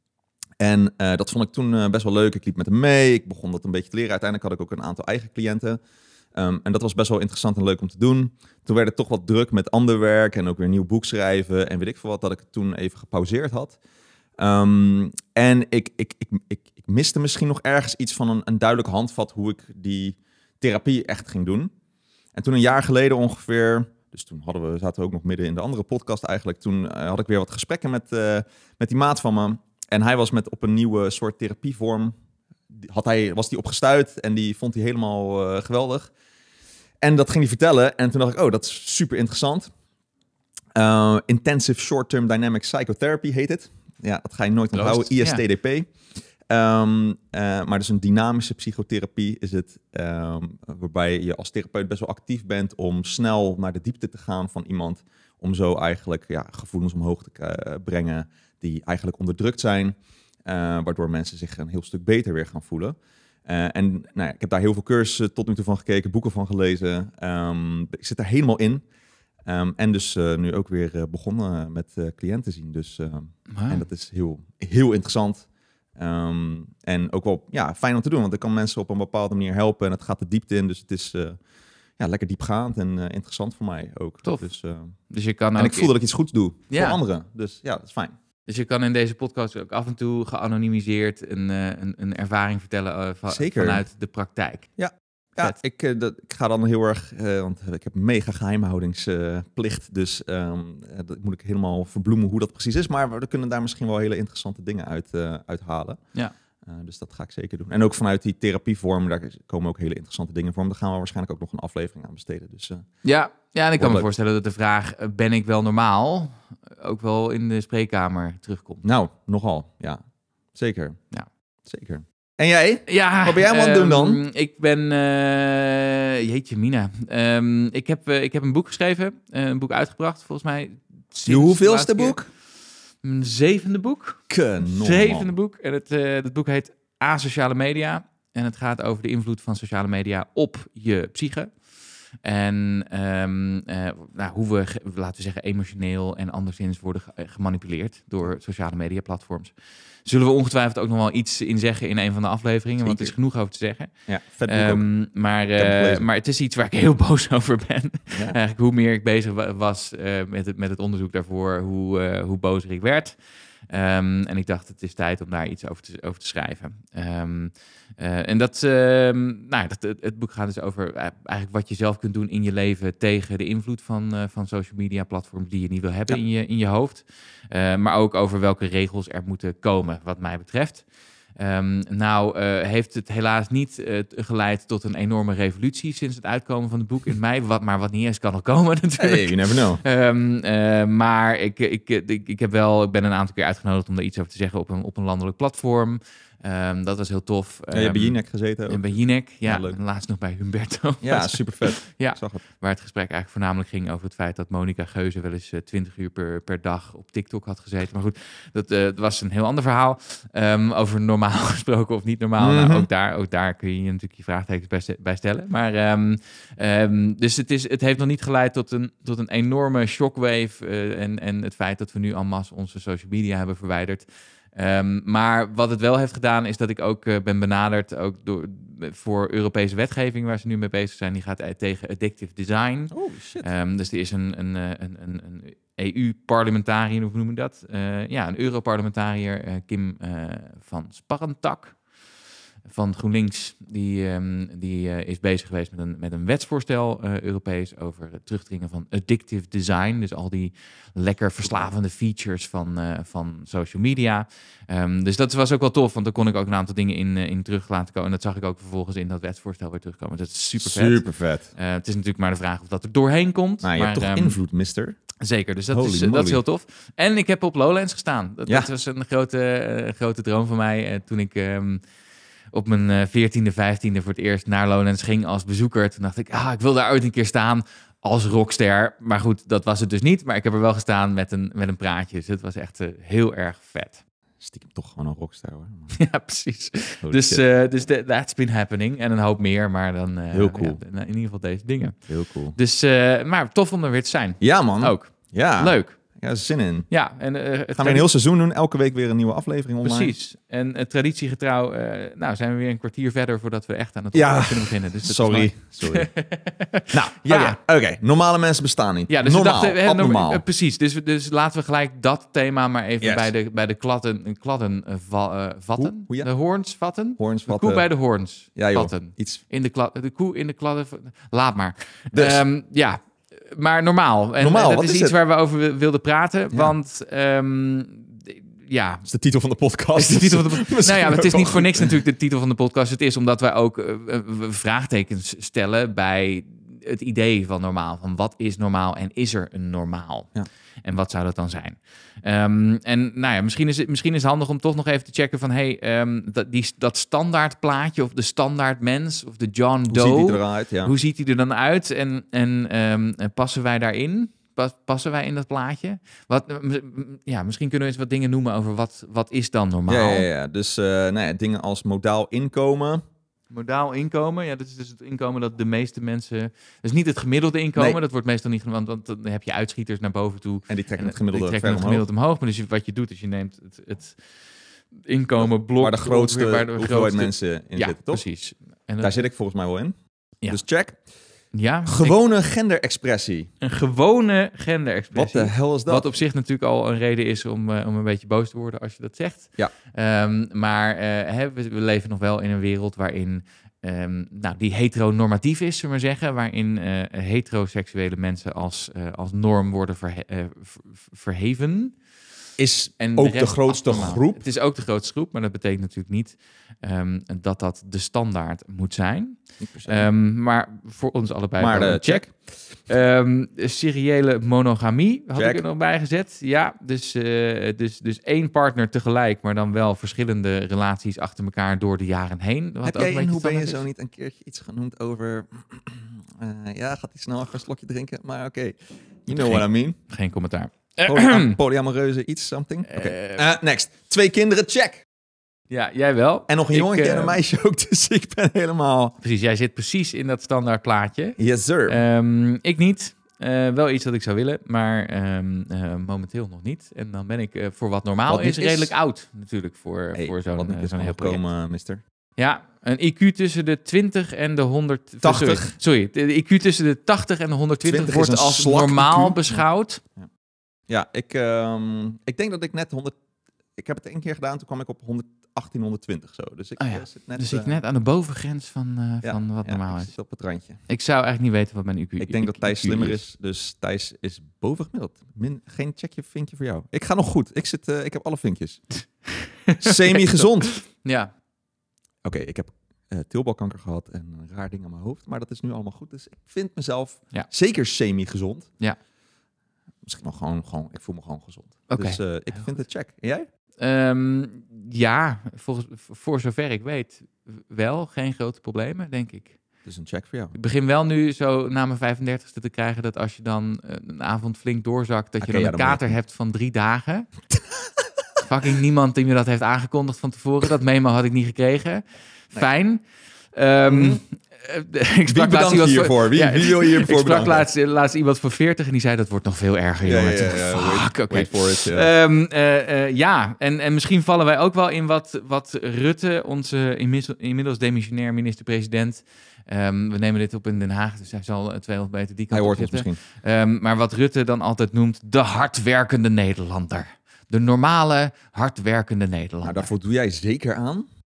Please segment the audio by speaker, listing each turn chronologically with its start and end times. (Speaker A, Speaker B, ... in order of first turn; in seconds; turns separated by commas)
Speaker A: 0.6-5.8, Speaker A: 6.3-13.8, Speaker A: 14.4-21.7, Speaker A: 22.3-32.1, Speaker A: 32.7-36.1, Speaker A: 37.0-39.7, Speaker A: 40.8-45.9, Speaker B: 44.7-45.4, Speaker A: 46.5-68.8, Speaker A: 69.4-81.4, Speaker B: 73.5-73.8, Speaker A: 82.0-84.9, Speaker B: 85.1-85.9, Speaker A: 85.5-88.1, Speaker B: 86.7-87.0, Speaker B: 88.5-94.7, Speaker A: 93.3-93.8, Speaker A: 94.8-106.0, Speaker A: 106.7-112.9, Speaker B: 113.0-118.8, Speaker A: 113.8-114.1, Speaker A: 118.8-120.0, Speaker A: 120.5-121.0, Speaker A: 121.6-124.2, Speaker B: 122.9-132.2, Speaker A: 131.3-132.3, Speaker B: 133.0-141.5, Speaker A: 134.3-135.3, Speaker B: 142.2-149.5, Speaker B: 150.1-153.9, Speaker A: 152.8-153.1, Speaker A: 154.1-154.9, Speaker B: 154.4-163.2, Speaker A: 155.5-156.1, Speaker B: 163.7-180.8, Speaker B: 181.4-241.8, Speaker A: 189.0-189.8, Speaker A: 197.7-198.9, Speaker A: 199.4-199.8, Speaker A: 201.0-202.4, Speaker A: 212.4-212.9, Speaker A: 232.9-233.5, Speaker B: 242.7-264.4, Speaker A: 260.6-261.5, Speaker A: 263.6-265.0, Speaker B: 265.2-271.8, Speaker A: 265.7-266.4, Speaker B: 272.5-284.0, Speaker A: 284.4-285.9, Speaker B: 285.9-292.0, Speaker A: 287.0-287.4, Speaker A: 290.3-290.8, Speaker A: 292.1-292.6, Speaker B: 292.5-296.0, Speaker A: 294.4-296.9, Speaker B: 296.9-298.1, Speaker A: 297.8-300.1, Speaker B: 299.8-307.6, Speaker A: 304.1-306.1, Speaker A: 306.9-310.4, Speaker B: 309.1-329.1, Speaker A: 313.0-313.3, Speaker A: 315.8-316.3, Speaker A: 317.2-317.9, Speaker A: 318.6-319.4, Speaker A: 322.1-322.4, Speaker A: 324.4-325.1, Speaker A: 329.1-331.9, Speaker B: 329.9-340.3, Speaker B: 340.8-360.3, Speaker A: 349.9-350.9, Speaker A: 359.9-363.0, Speaker B: 363.5-374.2, Speaker A: 370.7-372.1, Speaker B: 375.0-379.1, Speaker A: 375.4-378.2, Speaker A: 379.0-379.9, Speaker A: 380.4-381.0, Speaker B: 381.5-382.2, Speaker A: 381.8-383.5, Speaker B: 383.6-402.0, Speaker A: 385.1-386.0, Speaker A: 402.6-404.4, Speaker B: 403.0-423.8, Speaker A: 409.6-410.1, Speaker A: 411.6-412.3, Speaker A: 415.4-415.6, Speaker A: 422.8-430.0, Speaker B: 429.3-431.6, Speaker A: 431.1-435.0, Speaker B: 432.9-433.4, Speaker B: 435.7-437.4, Speaker A: 436.5-439.1, Speaker B: 439.2-451.4, Speaker A: 441.4-442.0, Speaker A: 448.3-448.9, Speaker A: 450.1-452.0, Speaker B: 452.4-460.0, Speaker A: 455.2-455.8, Speaker A: 457.8-459.6, Speaker A: 460.9-463.2, Speaker A: 463.8-467.8, Speaker B: 466.8-470.1, Speaker A: 469.2-470.8, Speaker B: 470.9-473.2, Speaker A: 472.2-478.9, Speaker B: 479.2-481.3, Speaker A: 479.8-480.7, Speaker A: 482.2-488.7, Speaker A: 490.0-493.5, Speaker B: 491.9-492.7, Speaker B: 493.8-499.6, Speaker A: 499.9-500.5, Speaker B: 500.5-507.3, Speaker A: 505.4-506.0, Speaker B: 508.4-513.0, Speaker B: 513.5-539.9, Speaker A: 513.9-514.2, Speaker A: 515.3-517.7, Speaker A: 520.1-522.1, Speaker A: 532.5-533.2, Speaker A: 539.6-541.1